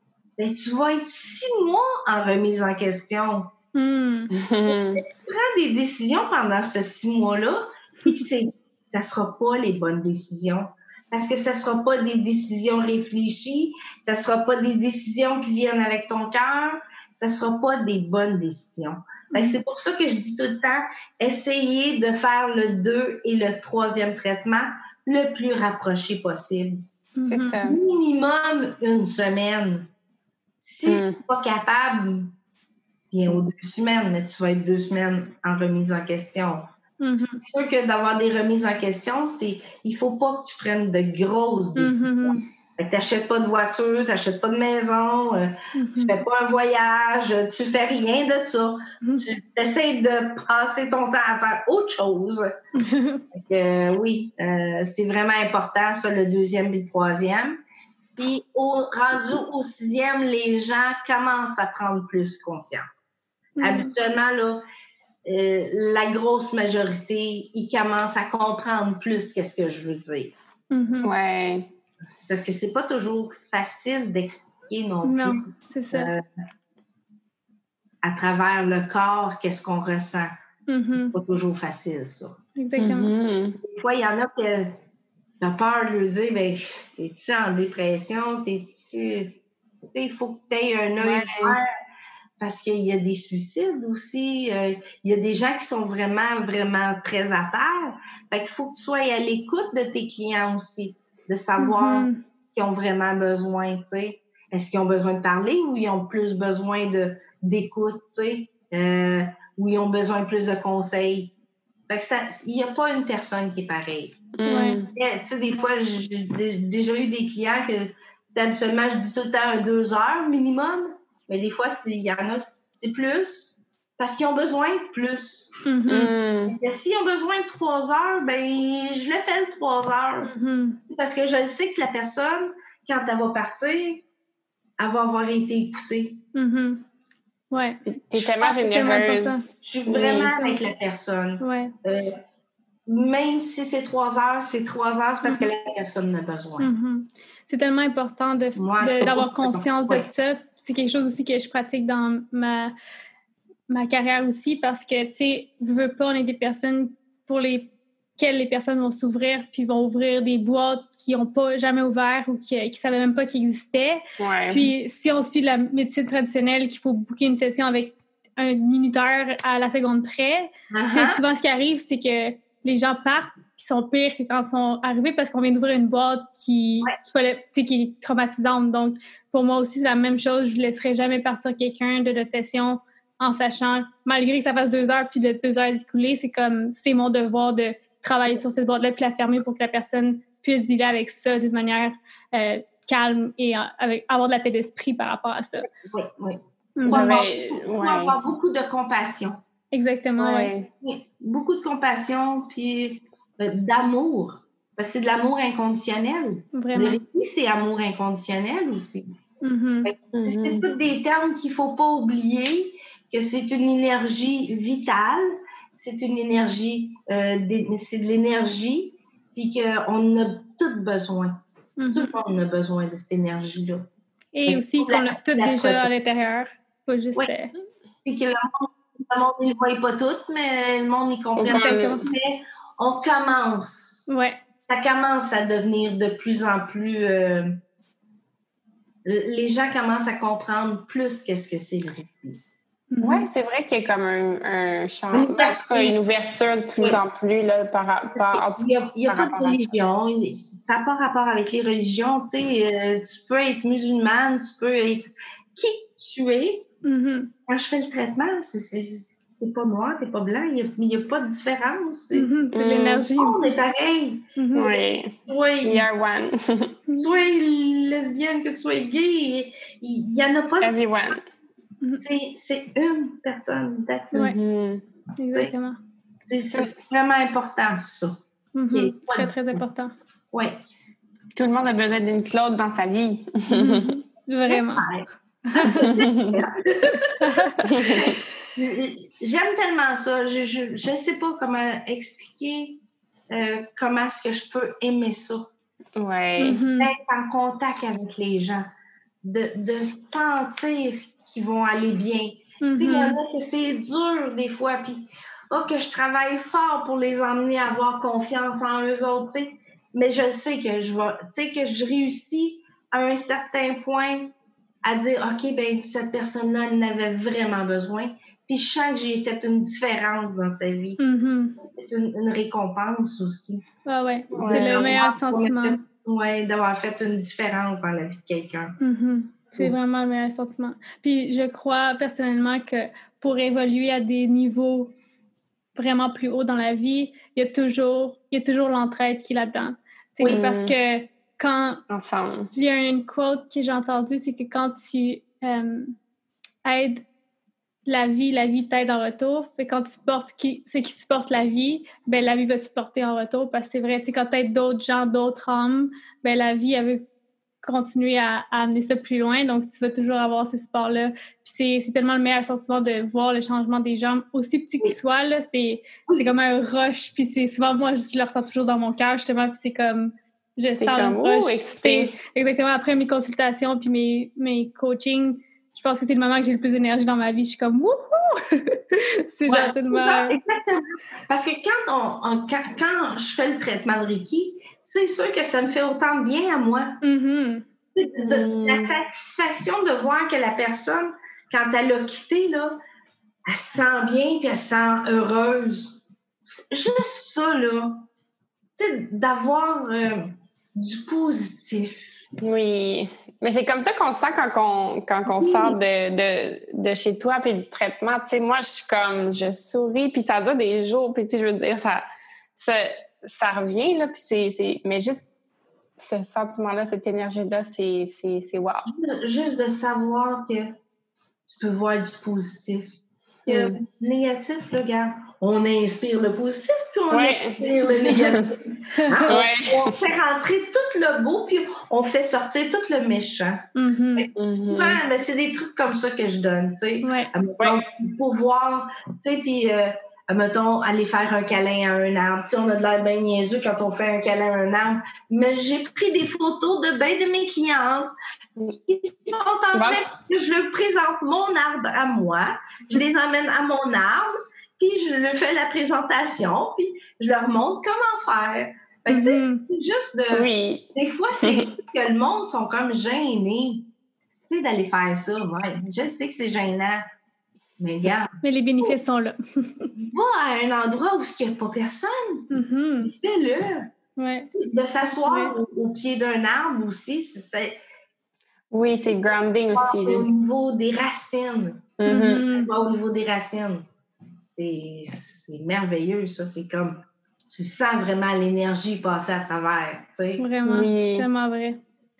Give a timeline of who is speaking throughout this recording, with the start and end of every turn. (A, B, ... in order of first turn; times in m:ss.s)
0:00.4-0:03.5 A
0:03.7-0:04.3 B
0:04.3-0:05.0 C
0:04.7-0:26.8 A
0:27.2-0:27.6 B
0:27.2-0:27.8 C
0:27.6-0:29.9 A
0:30.6-0:32.3 A
0:30.8-0:31.2 C
0:33.1-0:36.7 A
0:37.0-0:37.4 B
0:37.2-0:52.5 A
0:41.8-0:42.4 B
0:45.7-0:46.2 B
0:52.8-0:53.2 B
0:53.3-0:57.6 A
0:58.2-1:02.9 A
1:03.6-1:03.9 B
1:03.6-1:04.6 A
1:05.3-1:10.3 A
1:10.7-1:11.1 B
1:11.0-1:11.7 C
1:12.0-1:16.2 A
1:15.0-1:16.1 B
1:18.0-1:20.3 A
1:20.7-1:21.1 B
1:20.9-1:22.4 A
1:22.6-1:23.1 B
1:22.8-1:23.6 C
1:23.6-1:24.8 A
1:25.4-1:31.7 A
1:31.0-1:31.6 C
1:32.4-1:51.3 A
1:41.6-1:42.2 B
1:51.9-1:54.3 A
1:54.4-1:54.9 C
1:54.5-1:54.8 B
1:54.9-2:05.5 A
2:05.6-2:06.1 B
2:05.9-2:06.5 C
2:06.5-2:10.3 A
2:10.2-2:10.8 B
2:10.9-2:14.0 A
2:14.8-2:16.2 A
2:16.3-2:16.8 B
2:17.5-2:19.4 B
2:17.9-2:20.3 C
2:19.6-2:22.2 A
2:20.4-2:20.6 B
2:21.4-2:21.7 B
2:22.9-2:26.7 A
2:25.2-2:25.5 B
2:26.6-2:32.7 B
2:28.6-2:30.1 A
2:33.7-3:15.7 B
2:44.2-2:44.7 C
2:50.7-2:51.2 A
3:15.9-3:19.4 A
3:16.8-3:17.1 B
3:16.9-3:18.2 C
3:19.7-3:20.5 B
3:20.2-3:20.7 C
3:20.8-3:29.1 A
3:26.5-3:27.0 B
3:29.4-3:29.9 B
3:29.8-3:43.9 A
3:30.1-3:30.7 C
3:41.8-3:42.1 B
3:44.3-3:47.5 B
3:44.4-3:45.9 A
3:48.0-3:54.1 A
3:51.4-3:52.0 C
3:51.5-3:52.0 B
3:54.1-3:54.4 B
3:54.7-3:57.6 A
3:59.0-4:02.4 A
4:02.9-4:03.2 B
4:03.0-4:09.7 C
4:05.1-4:06.0 A
4:08.1-4:16.6 A
4:16.8-4:17.3 B
4:17.5-4:22.3 A
4:22.1-4:23.4 B
4:22.5-4:23.1 C
4:23.2-4:24.3 A
4:24.4-4:24.8 B
4:24.5-4:26.8 C
4:25.3-4:25.9 A
4:26.9-4:31.1 A
4:30.6-4:31.2 C
4:31.9-4:34.2 A
4:34.1-4:34.8 C
4:35.2-4:35.8 B
4:36.2-4:38.2 A
4:38.5-4:39.9 B
4:38.7-4:39.6 A
4:41.3-4:44.0 C
4:43.5-4:44.9 B
4:44.4-4:52.8 A
4:45.4-4:45.9 B
4:45.8-4:46.4 C
4:47.2-4:47.5 B
4:47.6-4:48.0 C
4:53.3-4:55.5 A
4:56.0-4:56.6 C
4:56.4-4:56.9 B
4:56.8-4:58.7 A
4:59.2-5:14.3 A
5:02.6-5:03.2 B
5:14.8-5:21.0 A
5:21.0-5:21.6 B
5:21.6-5:23.6 A
5:23.8-5:25.8 B
5:24.3-5:28.8 A
5:24.3-5:25.0 C
5:28.8-5:34.9 B
5:35.8-5:41.8 B
5:40.2-5:40.8 C
5:41.9-5:42.5 C
5:42.5-5:46.0 B
5:46.6-5:47.0 B
5:47.8-5:57.0 B
5:57.6-6:20.4 B
6:10.8-6:12.1 C
6:19.4-6:27.0 A
6:27.0-6:27.6 B
6:28.0-6:32.8 A
6:28.2-6:28.9 C
6:33.4-6:38.1 A
6:38.8-6:42.1 A
6:42.4-6:52.0 C
6:45.3-6:45.8 A
6:52.6-6:55.3 C
6:56.0-6:58.8 C
6:58.9-7:00.7 A
7:01.5-7:13.6 A
7:03.4-7:03.8 C
7:07.1-7:08.5 C
7:09.0-7:09.3 B
7:09.3-7:10.0 C
7:13.7-7:14.3 B
7:14.2-7:28.1 A
7:14.4-7:15.0 C
7:17.0-7:17.3 B
7:28.8-7:43.9 A
7:29.7-7:30.1 C
7:39.1-7:39.6 B
7:40.3-7:40.9 C
7:41.4-7:41.7 C
7:44.5-7:47.0 A
7:47.8-7:48.9 A
7:48.4-7:49.9 B
7:49.9-7:53.9 A
7:52.5-7:53.1 B
7:54.2-7:54.5 B
7:54.5-7:57.8 A
7:55.2-7:55.5 B
7:58.7-8:00.3 C
7:59.7-8:01.9 A
8:02.0-8:02.5 C
8:02.1-8:02.7 B
8:02.5-8:03.8 A
8:04.6-8:10.4 A
8:10.4-8:11.8 B
8:10.6-8:11.3 C